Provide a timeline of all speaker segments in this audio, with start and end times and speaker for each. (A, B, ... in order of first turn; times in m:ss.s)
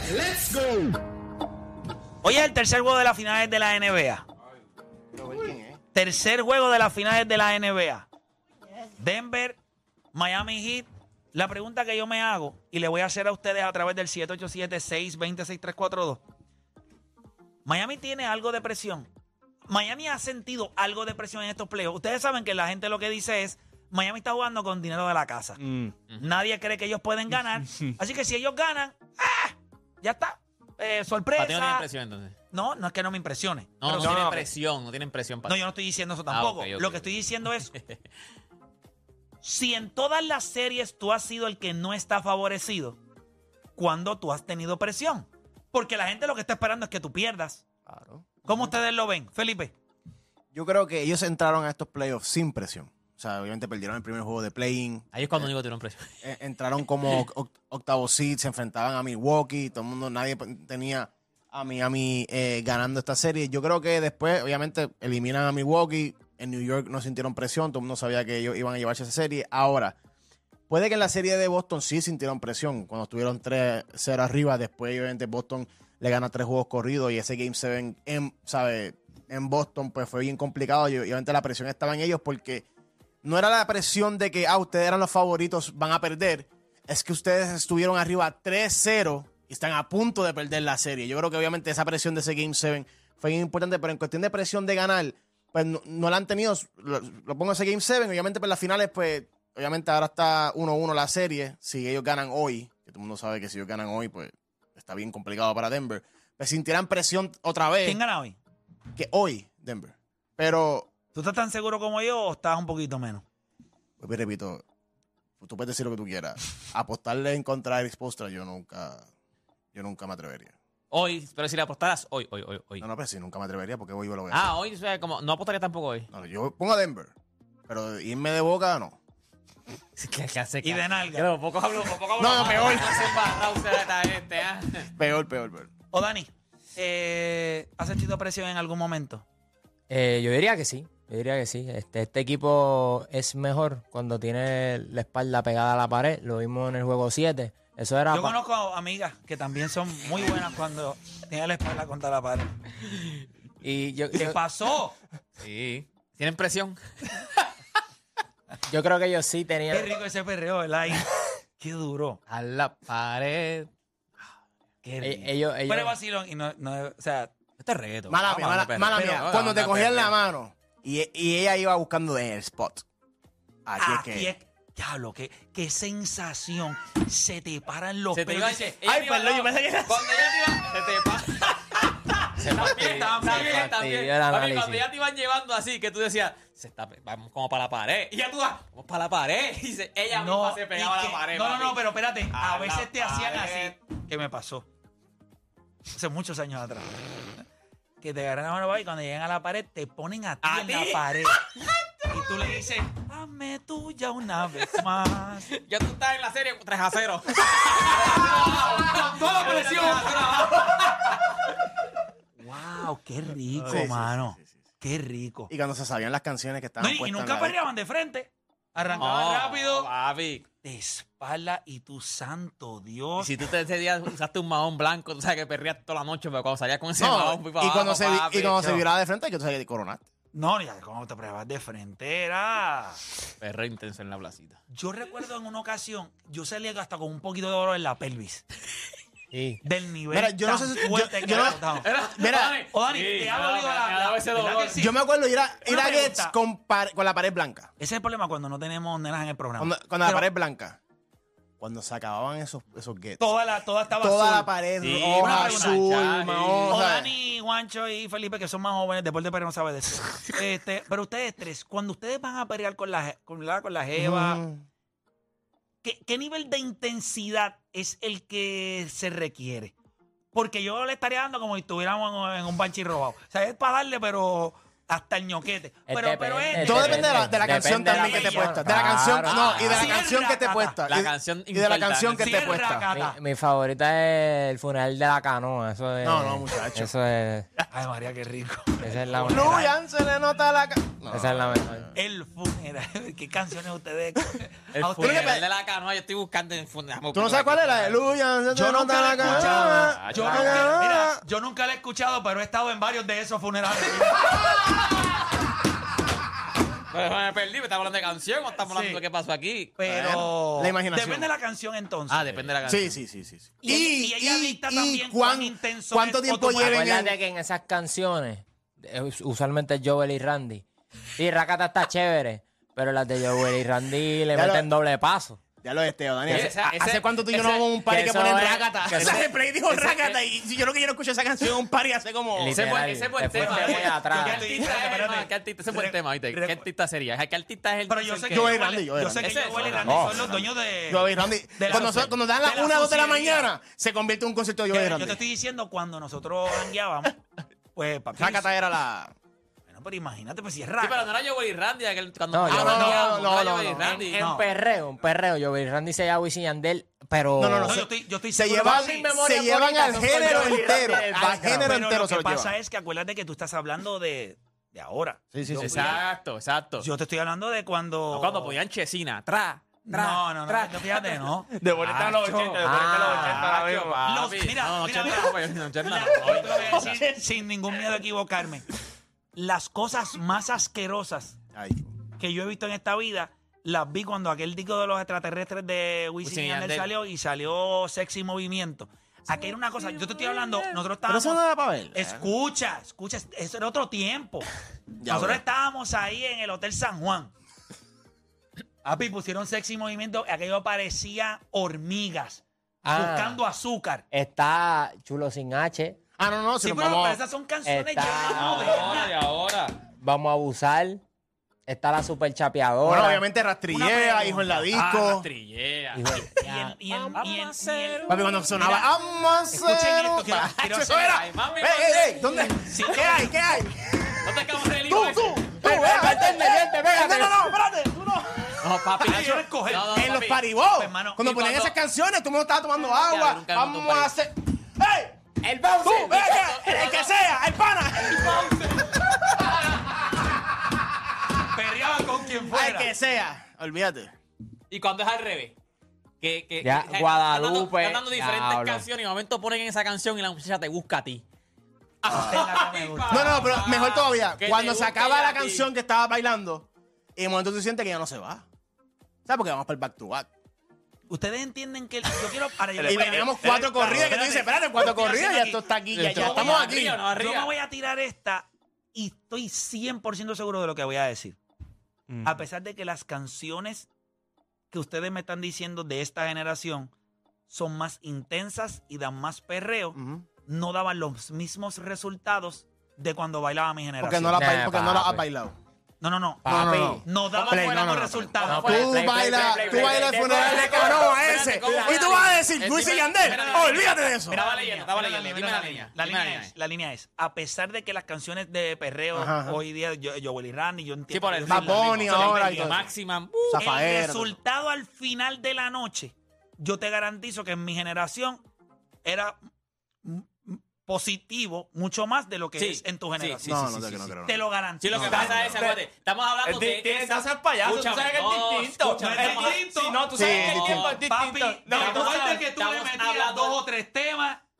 0:02.2-0:04.2 A
0:05.2-0:05.8 B
0:05.9-0:08.1 A
0:09.0-0:09.6 A
0:10.1-0:16.2 A
0:17.6-0:19.1 A
0:19.7-0:25.6 A
0:26.2-0:31.9 A
0:31.4-0:32.4 C
0:32.5-0:34.4 A
0:33.8-0:35.6 C
0:33.9-0:34.5 B
0:35.5-0:37.7 A
0:36.3-0:38.0 C
0:39.4-0:43.0 A
0:43.8-0:47.6 A
0:47.9-0:48.7 B
0:48.4-0:49.7 A
0:50.5-0:55.5 B
0:55.1-0:56.1 C
0:56.2-1:10.0 B
1:10.7-1:22.6 B
1:23.2-1:48.0 B
1:47.8-1:48.4 A
1:49.0-1:50.9 B
1:51.1-1:53.2 A
1:54.0-1:54.6 B
1:55.4-1:59.1 B
1:59.7-2:00.5 B
2:00.9-2:02.9 C
2:02.8-2:04.6 B
2:04.3-2:06.1 C
2:06.1-2:07.1 B
2:07.7-2:09.0 B
2:10.0-2:14.9 C
2:10.6-2:11.3 A
2:12.2-2:13.2 B
2:15.0-2:15.7 B
2:15.9-2:19.2 A
2:19.9-2:28.4 D
2:28.1-2:32.5 A
2:33.6-2:34.4 D
2:34.2-2:35.0 A
2:35.4-2:37.5 C
2:38.7-2:39.9 D
2:39.7-2:42.2 A
2:42.3-2:43.7 C
2:44.8-2:47.3 A
2:45.0-2:46.0 D
2:47.6-2:50.2 C
2:48.1-2:52.8 B
2:48.9-2:49.3 A
2:53.7-2:54.3 B
2:53.8-2:58.8 A
2:58.1-3:13.7 C
2:58.8-3:00.1 B
3:02.4-3:04.8 D
3:02.8-3:03.7 A
3:10.1-3:14.7 A
3:15.9-3:16.9 A
3:18.0-3:21.4 A
3:20.4-3:21.3 C
3:22.1-3:25.5 A
3:25.5-3:31.0 C
3:27.9-3:31.3 A
3:32.4-3:35.5 A
3:33.6-3:34.5 B
3:35.5-3:37.6 B
3:36.8-3:39.9 A
3:38.9-3:40.4 C
3:40.6-3:43.4 A
3:43.2-3:48.9 C
3:47.0-3:50.0 B
3:50.3-3:53.0 A
3:53.4-3:54.6 C
3:54.7-3:58.4 A
3:59.3-3:59.6 D
3:59.6-4:01.9 A
4:00.1-4:02.6 B
4:01.3-4:04.9 C
4:02.7-4:05.0 A
4:04.8-4:07.7 B
4:05.6-4:06.4 A
4:07.8-4:10.3 A
4:09.6-4:10.8 B
4:11.6-4:13.4 B
4:13.2-4:14.5 A
4:13.9-4:17.1 B
4:14.8-4:16.8 C
4:15.2-4:15.8 A
4:16.7-4:24.4 A
4:24.0-4:24.6 B
4:25.8-4:29.7 A
4:30.3-4:38.7 A
4:35.9-4:39.5 D
4:36.6-4:42.9 B
4:39.2-4:40.1 C
4:39.6-4:40.8 A
4:40.9-4:42.6 C
4:42.2-4:43.2 A
4:42.9-4:47.5 D
4:46.0-4:46.9 B
4:47.7-4:49.7 A
4:48.8-4:49.7 D
4:49.2-4:51.9 B
4:51.1-4:51.9 D
4:52.0-4:55.4 A
4:54.7-4:58.1 C
4:55.0-4:55.4 B
4:57.1-5:01.2 B
4:58.5-5:04.5 A
4:59.2-5:00.7 C
5:06.9-5:09.8 C
5:09.8-5:12.5 A
5:09.8-5:11.3 B
5:12.1-5:13.0 C
5:12.6-5:17.2 B
5:13.6-5:16.8 A
5:16.6-5:20.6 D
5:21.2-5:25.4 D
5:24.4-5:24.7 B
5:25.6-5:32.6 B
5:26.3-5:27.7 C
5:27.8-5:30.0 D
5:28.9-5:30.2 C
5:32.4-5:34.5 D
5:32.4-5:40.3 C
5:33.4-5:36.6 A
5:37.9-5:43.5 A
5:38.3-5:45.2 B
5:41.7-5:42.1 C
5:44.7-5:47.2 A
5:47.7-5:48.5 A
5:48.2-5:49.1 B
5:49.7-5:51.1 A
5:50.8-5:54.2 C
5:52.3-5:53.1 D
5:52.5-5:54.0 B
5:53.8-5:57.8 D
5:54.1-5:54.5 A
5:57.4-6:02.5 B
5:57.6-5:59.1 A
5:58.7-6:01.8 D
6:00.1-6:01.0 A
6:01.6-6:06.0 A
6:05.3-6:05.9 B
6:05.5-6:06.9 C
6:06.8-6:08.6 A
6:08.1-6:11.1 C
6:09.9-6:11.5 A
6:11.5-6:14.0 E
6:11.8-6:17.0 C
6:12.6-6:13.4 D
6:14.0-6:18.7 A
6:16.8-6:17.1 B
6:19.4-6:21.4 A
6:21.5-6:21.9 B
6:22.2-6:31.4 A
6:26.2-6:26.9 C
6:31.1-6:32.3 B
6:31.9-6:34.5 A
6:35.0-6:35.4 B
6:35.1-6:37.3 A
6:38.8-6:44.0 A
6:42.8-6:43.4 D
6:44.1-6:46.0 D
6:46.2-6:47.2 B
6:46.6-6:49.1 A
6:47.7-6:48.6 D
6:48.3-6:49.8 C
6:50.0-6:51.0 D
6:51.7-6:53.3 D
6:52.8-6:55.3 B
6:53.7-6:55.2 A
6:54.7-6:56.0 C
6:55.9-6:57.3 D
6:56.1-6:58.9 A
6:57.1-6:58.2 C
6:58.1-7:04.2 B
6:59.5-7:01.2 A
7:01.1-7:02.2 C
7:02.7-7:03.4 A
7:04.2-7:05.5 C
7:04.8-7:15.2 B
7:05.5-7:07.6 D
7:08.6-7:10.5 C
7:09.0-7:10.1 A
7:10.7-7:11.3 A
7:11.2-7:11.8 C
7:12.9-7:14.1 C
7:15.4-7:16.2 D
7:15.8-7:17.2 C
7:15.8-7:19.6 B
7:18.2-7:18.9 A
7:21.5-7:22.9 A
7:22.5-7:24.1 B
7:24.7-7:25.6 C
7:26.2-7:31.2 C
7:26.6-7:28.9 D
7:32.0-7:32.4 B
7:32.1-7:33.6 A
7:32.1-7:35.7 C
7:33.1-7:38.4 B
7:39.3-7:40.3 B
7:41.1-7:51.4 A
7:42.8-7:44.0 E
7:42.8-7:47.0 B
7:45.9-7:47.5 C
7:52.1-7:52.4 E
7:52.2-7:53.9 A
7:54.7-7:56.9 A
7:57.5-8:04.4 A
8:00.0-8:00.3 B
8:04.0-8:05.6 B
8:04.4-8:05.2 D
8:06.0-8:09.0 A
8:06.4-8:07.1 D
8:06.5-8:14.4 B
8:07.3-8:16.5 C
8:08.4-8:12.3 D
8:13.2-8:22.7 A
8:19.1-8:19.6 B
8:21.1-8:23.7 C
8:21.5-8:22.9 B
8:23.5-8:24.4 B
8:23.6-8:28.4 A
8:29.0-8:29.4 A
8:30.0-8:33.7 A
8:32.6-8:34.1 C
8:33.4-8:35.6 B
8:34.2-8:35.4 A
8:34.8-8:39.7 C
8:35.0-8:35.8 E
8:36.4-8:42.4 E
8:39.0-8:40.5 A
8:40.1-8:41.0 B
8:40.2-8:41.0 C
8:41.0-8:44.4 A
8:41.7-8:43.6 C